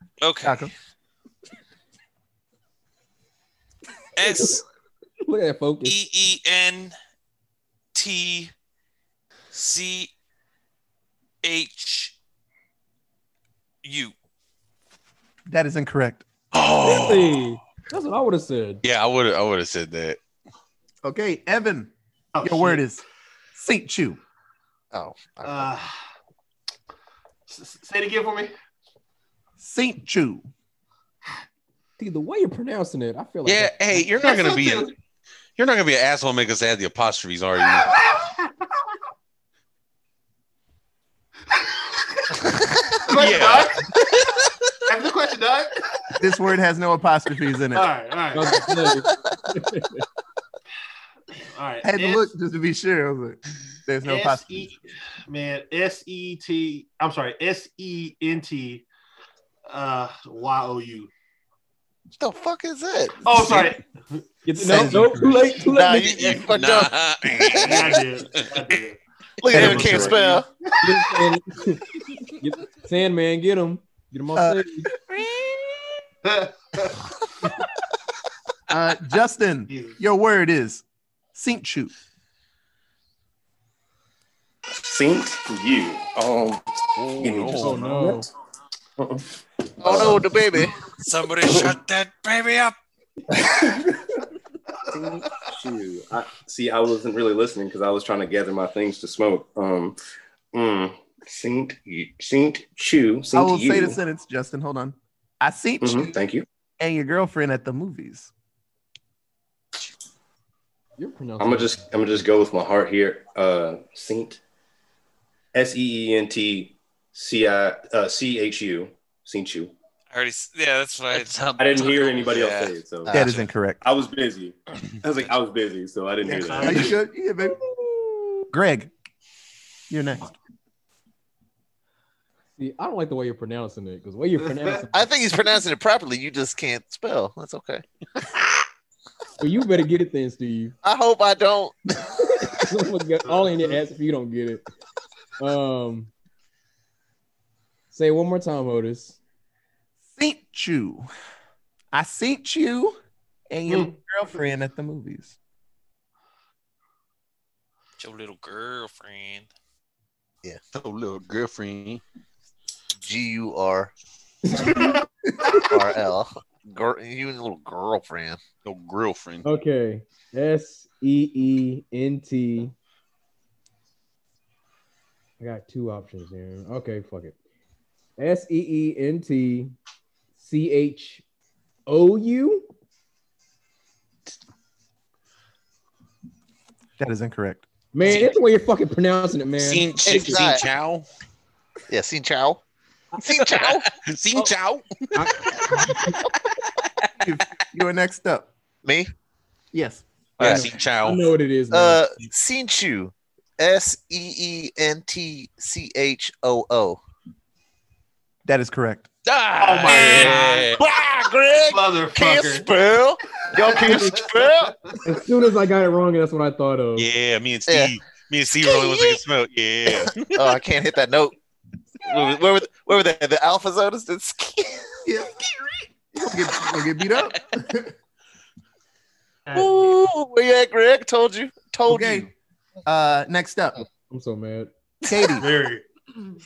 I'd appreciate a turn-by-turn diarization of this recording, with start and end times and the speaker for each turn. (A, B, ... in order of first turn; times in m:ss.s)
0:00.2-0:00.7 A
0:00.4-0:00.7 B
0:04.2-0:04.6 A
0:04.3-0:04.6 C
0:05.2-0:06.0 C
0:05.8-0:07.0 A
0:07.9-0:08.5 A
0:09.5-0:10.1 A
0:11.4-0:12.2 A
0:13.8-0:14.2 A
0:15.5-0:16.3 B
0:16.5-0:17.4 D
0:16.8-0:18.8 C
0:18.8-0:20.2 D
0:21.0-0:24.2 B
0:22.4-0:22.8 E
0:24.9-0:25.7 F
0:25.4-0:25.9 E
0:27.5-0:28.5 E
0:29.6-0:30.5 B
0:32.0-0:34.1 C
0:33.4-0:35.0 D
0:34.2-0:34.9 E
0:35.6-0:37.9 D
0:43.1-0:43.8 E
0:43.1-0:44.7 D
0:44.9-0:45.8 E
0:46.2-0:47.9 B
0:47.7-0:48.8 E
0:48.3-0:50.0 C
0:51.5-0:52.3 E
0:51.8-0:54.7 B
0:54.0-0:58.9 E
0:59.7-1:01.1 E
1:02.2-1:03.6 F
1:03.2-1:04.2 E
1:04.4-1:06.3 C
1:04.6-1:05.5 B
1:05.0-1:05.3 D
1:05.6-1:08.0 F
1:05.9-1:08.7 D
1:07.6-1:09.0 E
1:09.4-1:10.5 F
1:09.5-1:10.1 D
1:09.5-1:10.2 B
1:09.6-1:10.2 E
1:10.8-1:14.9 C
1:14.3-1:15.2 B
1:16.2-1:17.0 E
1:18.7-1:20.8 B
1:19.7-1:20.0 E
1:21.4-1:21.9 B
1:24.8-1:28.1 G
1:27.0-1:28.2 D
1:27.6-1:28.3 C
1:29.0-1:29.2 G
1:29.8-1:30.8 F
1:29.8-1:30.2 G
1:31.0-1:32.8 A
1:31.5-1:31.7 G
1:33.4-1:33.9 G
1:34.9-1:40.0 G
1:40.5-1:44.0 G
1:43.3-1:46.2 B
1:45.8-1:46.4 G
1:46.8-1:48.3 B
1:51.0-1:51.9 C
1:51.4-1:54.4 G
1:55.5-1:59.7 G
2:00.1-2:03.4 A
2:01.6-2:03.2 G
2:03.1-2:03.8 B
2:03.8-2:07.0 G
2:06.2-2:07.6 B
2:06.5-2:07.0 E
2:08.5-2:08.9 B
2:09.9-2:10.3 B
2:12.6-2:15.0 C
2:14.5-2:14.8 E
2:14.9-2:18.6 F
2:19.4-2:20.8 C
2:20.8-2:21.8 F
2:22.4-2:24.6 C
2:23.3-2:23.8 E
2:25.4-2:26.1 C
2:27.9-2:29.2 C
2:30.1-2:31.1 B
2:31.9-2:33.0 B
2:33.5-2:35.4 B
2:33.7-2:33.9 E
2:38.0-2:39.5 A
2:40.7-2:42.0 D
2:43.0-2:43.9 F
2:44.5-2:44.9 C
2:45.5-2:48.4 F
2:48.6-2:49.4 D
2:49.4-2:52.7 C
2:55.4-2:57.4 C
2:58.2-2:59.8 C
3:00.4-3:01.2 C
3:01.9-3:02.7 C
3:07.0-3:07.7 B
3:07.9-3:10.4 C
3:08.0-3:08.3 D
3:09.6-3:11.1 D
3:10.0-3:10.7 F
3:11.9-3:12.6 F
3:13.2-3:13.9 F
3:13.5-3:15.7 D
3:15.1-3:16.2 C
3:17.2-3:18.5 B
3:18.8-3:19.1 F
3:19.7-3:20.0 B
3:20.4-3:21.2 D
3:20.4-3:22.0 C
3:21.7-3:27.0 F
3:28.4-3:29.1 B
3:29.3-3:30.8 D
3:29.6-3:30.8 E
3:29.9-3:34.8 F
3:31.6-3:32.7 E
3:33.4-3:35.0 E
3:35.0-3:37.1 C
3:37.0-3:40.5 D
3:37.7-3:38.0 F
3:38.6-3:39.2 F
3:39.9-3:41.4 F
3:42.0-3:45.1 F
3:45.1-3:47.9 B
3:49.5-3:50.0 E
3:49.5-3:52.3 F
3:51.9-3:52.3 B
3:52.9-3:53.8 B
3:54.1-3:54.7 C
3:55.1-3:55.5 B
3:55.4-3:55.8 E